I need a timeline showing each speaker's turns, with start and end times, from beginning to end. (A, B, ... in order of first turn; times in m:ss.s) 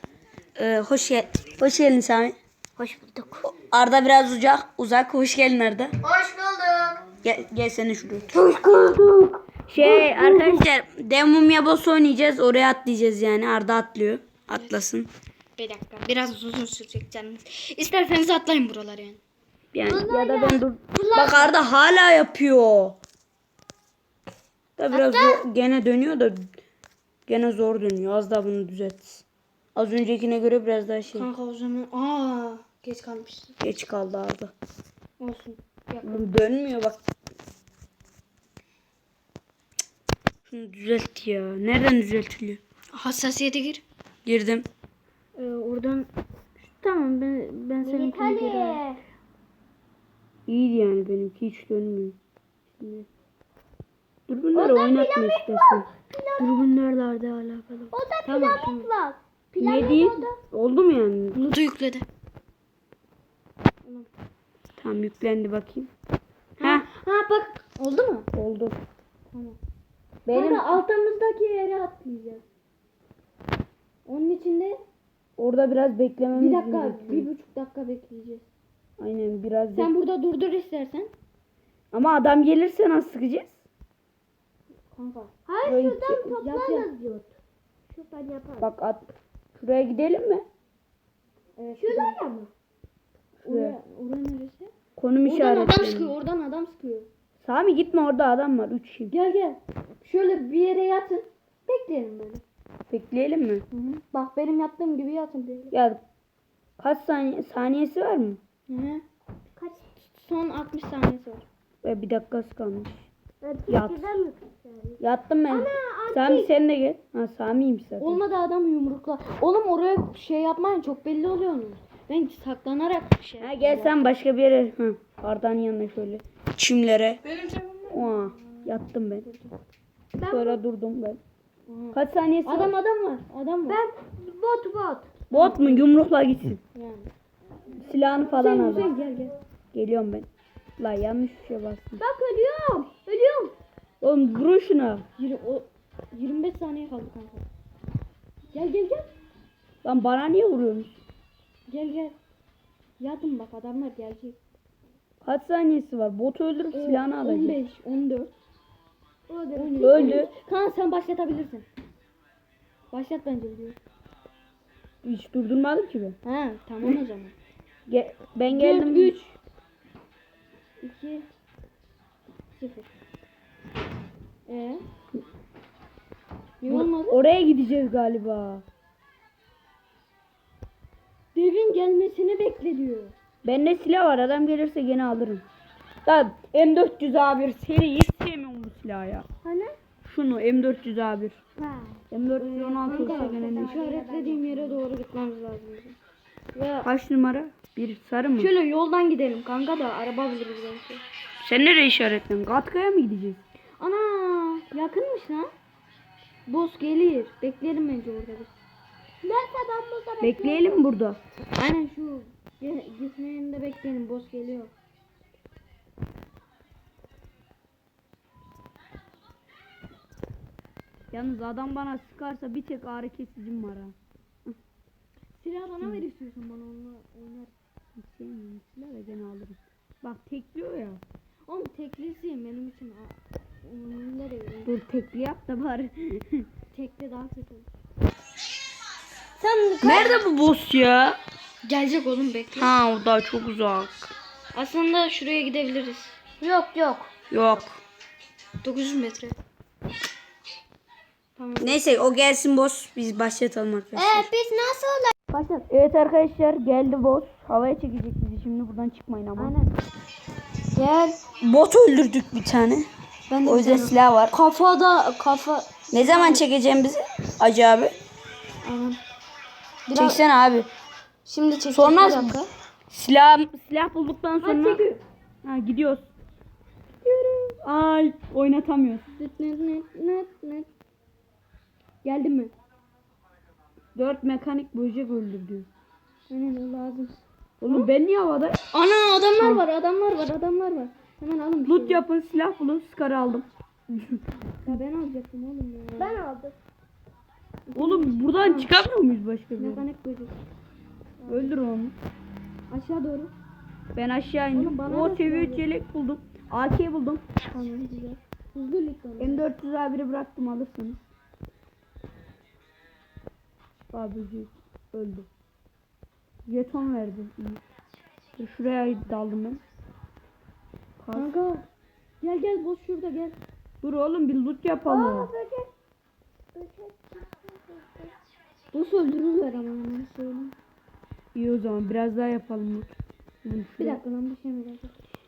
0:00.6-0:02.3 A
0:02.8-0:03.5 B
0:03.5-0:06.0 A
0:06.0-0:07.0 B
0:07.2-0:08.3 A
0:08.3-0:10.6 B
0:09.7-0:15.1 A
0:15.6-0:19.2 B
0:19.7-0:23.0 A
0:19.9-0:21.4 C
0:21.1-0:21.5 B
0:24.8-0:26.4 A
0:24.9-0:25.4 B
0:27.3-0:31.3 A
0:31.1-0:33.6 B
0:33.6-0:34.5 A
0:35.2-0:36.3 B
0:36.0-0:37.0 A
0:40.5-0:42.6 A
0:42.9-0:43.8 B
0:44.3-0:44.7 A
0:45.4-0:48.8 B
0:47.8-0:49.0 C
0:50.5-0:52.2 A
0:52.7-0:53.1 A
0:54.3-0:55.9 A
0:54.5-0:56.6 C
0:56.4-0:58.9 B
0:57.9-1:00.4 C
0:59.6-1:01.4 A
1:01.3-1:02.1 B
1:03.8-1:04.1 B
1:04.8-1:05.9 A
1:06.6-1:08.3 B
1:06.6-1:06.9 A
1:08.3-1:08.8 A
1:09.3-1:09.6 B
1:10.3-1:10.8 A
1:10.3-1:12.4 B
1:14.1-1:14.8 B
1:15.4-1:17.3 A
1:16.3-1:18.4 B
1:19.0-1:19.9 A
1:19.7-1:21.1 B
1:21.9-1:23.6 A
1:24.9-1:25.3 B
1:25.5-1:27.3 C
1:25.6-1:26.3 A
1:26.4-1:26.9 B
1:27.9-1:28.7 C
1:28.6-1:30.4 A
1:31.6-1:32.2 B
1:31.8-1:32.5 C
1:33.4-1:34.7 B
1:33.5-1:33.8 A
1:35.0-1:36.1 A
1:35.2-1:37.1 B
1:37.4-1:39.1 A
1:39.1-1:42.4 B
1:42.9-1:43.6 A
1:43.7-1:45.8 B
1:45.7-1:46.0 A
1:46.8-1:48.4 A
1:48.7-1:49.0 B
1:49.6-1:49.8 C
1:50.1-1:51.4 B
1:51.8-1:53.1 A
1:53.4-1:56.5 C
1:53.7-1:54.1 A
1:55.0-1:58.2 A
1:58.0-2:04.0 B
2:03.4-2:07.2 A
2:07.3-2:08.6 B
2:07.9-2:09.3 A
2:09.2-2:09.5 B
2:10.2-2:10.6 C
2:10.3-2:11.2 A
2:11.7-2:13.8 B
2:11.9-2:12.7 A
2:13.7-2:15.1 C
2:15.3-2:16.6 A
2:15.3-2:15.9 B
2:16.7-2:17.1 B
2:17.7-2:18.9 A
2:18.3-2:19.4 B
2:19.7-2:20.3 A
2:20.8-2:22.0 A
2:22.0-2:23.5 C
2:24.0-2:25.1 A
2:25.2-2:27.4 B
2:28.5-2:29.1 B
2:29.8-2:31.0 A
2:31.7-2:32.2 B
2:33.0-2:34.4 B
2:35.2-2:37.6 A
2:36.7-2:38.3 B
2:39.3-2:40.3 C
2:39.5-2:41.7 B
2:39.8-2:40.3 A
2:42.9-2:43.8 B
2:45.0-2:46.2 A
2:46.2-2:47.4 B
2:47.9-2:49.2 A
2:48.5-2:49.4 B
2:50.8-2:51.3 B
2:52.6-2:52.9 B
2:54.5-2:54.8 B
2:56.6-2:57.2 B
2:56.7-2:58.6 A
3:01.4-3:03.1 B
3:03.4-3:05.4 A
3:06.0-3:09.3 A
3:09.4-3:09.8 C
3:10.0-3:11.4 A
3:11.6-3:12.0 C
3:12.1-3:13.7 A
3:12.4-3:16.0 B
3:13.0-3:14.8 C
3:16.5-3:16.9 B
3:16.8-3:18.5 A
3:18.4-3:21.0 B
3:21.4-3:23.4 A
3:23.8-3:25.5 B
3:26.5-3:28.5 B
3:29.2-3:30.9 C
3:30.2-3:31.2 A
3:31.6-3:34.7 B
3:41.1-3:44.6 A
3:45.4-3:47.5 B
3:45.8-3:46.0 A
3:48.0-3:51.0 A
3:51.5-3:54.7 B
3:54.6-3:56.5 A
3:56.7-3:57.7 B
3:59.4-4:00.2 C
3:59.8-4:01.2 A
4:01.6-4:02.7 B
4:02.6-4:04.1 A
4:04.5-4:07.1 B
4:07.3-4:07.8 A
4:08.6-4:09.4 B
4:11.4-4:11.8 B
4:11.6-4:14.3 A
4:14.0-4:15.1 C
4:15.3-4:15.7 B
4:15.7-4:19.6 A
4:19.4-4:19.7 B
4:20.7-4:21.2 B
4:21.4-4:22.9 A
4:23.3-4:26.4 B
4:23.4-4:24.3 A
4:25.9-4:28.0 A
4:28.6-4:29.0 B
4:29.9-4:30.2 B
4:30.0-4:30.7 A
4:31.2-4:32.5 B
4:31.7-4:34.8 A
4:34.4-4:35.0 B
4:35.4-4:36.1 A
4:37.0-4:37.6 B
4:37.6-4:39.1 A
4:39.1-4:40.7 B
4:42.0-4:42.5 B
4:44.0-4:45.7 A
4:46.3-4:47.9 B
4:47.6-4:48.6 A
4:48.7-4:52.0 B
4:49.4-4:49.6 A
4:51.6-4:54.2 A
4:54.6-4:56.2 B
4:56.0-4:56.6 C
4:57.7-4:58.7 B
4:57.8-4:59.9 A
4:59.6-5:00.4 B
5:01.2-5:01.6 B
5:01.3-5:02.0 A
5:02.7-5:03.3 B
5:04.0-5:07.2 A
5:04.5-5:05.7 B
5:07.5-5:09.5 B
5:09.2-5:11.0 A
5:13.9-5:15.3 A
5:16.5-5:17.6 A
5:18.4-5:19.6 A
5:21.0-5:21.4 A
5:21.1-5:21.7 B
5:22.2-5:23.4 B
5:23.8-5:25.3 A
5:24.8-5:25.7 C
5:26.5-5:28.1 C
5:28.7-5:30.6 B
5:31.4-5:34.0 A
5:33.8-5:34.9 B